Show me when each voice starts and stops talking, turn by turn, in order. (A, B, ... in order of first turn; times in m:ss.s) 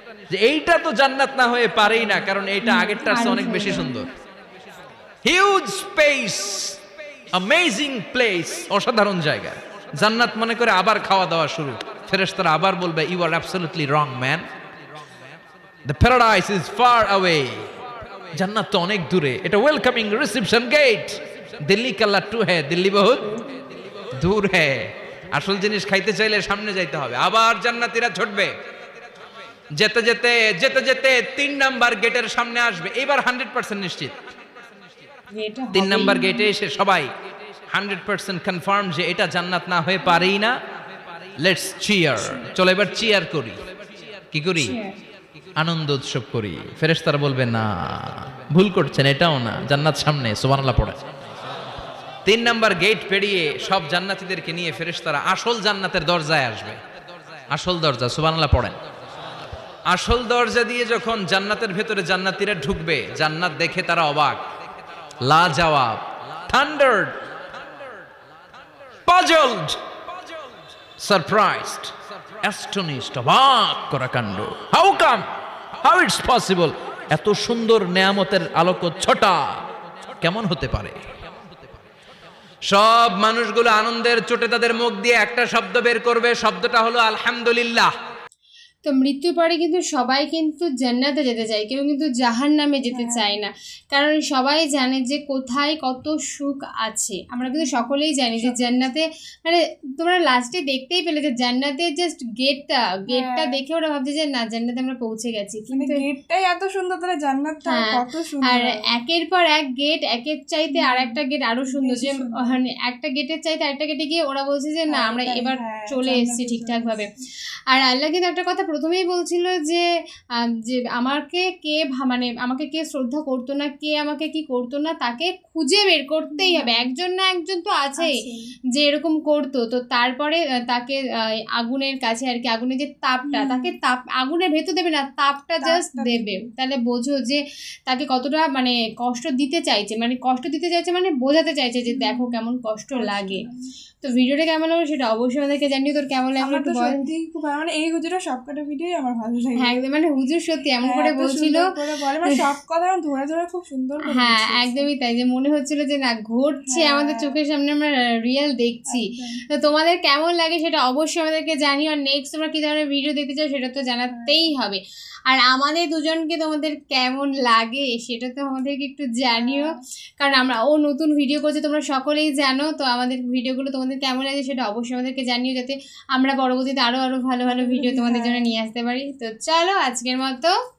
0:00.3-0:04.1 A
0:02.6-0:03.9 B
0:05.2-0:06.8 A
0:07.3-0:14.4 A
0:15.8-0:17.8 A
0:18.3-0:23.4 A
0:24.1-0:28.5 A
0:29.8-0:34.2 A
0:35.3-0:36.5 B
0:35.7-0:37.1 A
0:37.7-0:40.5 A
0:41.4-0:43.6 A
0:44.3-0:44.7 A
0:44.6-0:45.0 B
0:45.6-0:51.0 A
0:52.2-0:56.8 A
0:57.5-0:58.8 A
0:59.9-1:04.4 A
1:05.2-1:07.3 A
1:09.1-1:09.8 A
1:11.0-1:15.3 A
1:15.8-1:21.0 A
1:22.7-1:27.9 A
1:28.8-1:46.0 B
1:32.9-1:33.2 C
1:37.6-1:38.6 C
1:43.1-1:43.6 C
1:45.7-1:48.8 C
1:47.7-1:57.1 B
1:50.7-1:52.6 C
1:54.9-1:57.0 C
1:57.7-1:59.8 B
2:00.4-2:08.1 B
2:06.3-2:06.8 C
2:08.0-2:08.4 C
2:08.7-2:11.0 B
2:11.5-2:23.4 B
2:13.3-2:13.7 C
2:15.6-2:16.4 C
2:21.9-2:22.4 C
2:23.0-2:23.6 C
2:24.0-2:27.1 B
2:26.4-2:29.8 C
2:29.6-2:31.7 B
2:30.8-2:34.9 C
2:34.0-3:00.5 B
2:36.6-2:37.3 C
2:38.9-2:39.4 C
2:44.1-2:44.4 C
2:49.4-2:49.6 C
2:57.5-2:58.5 C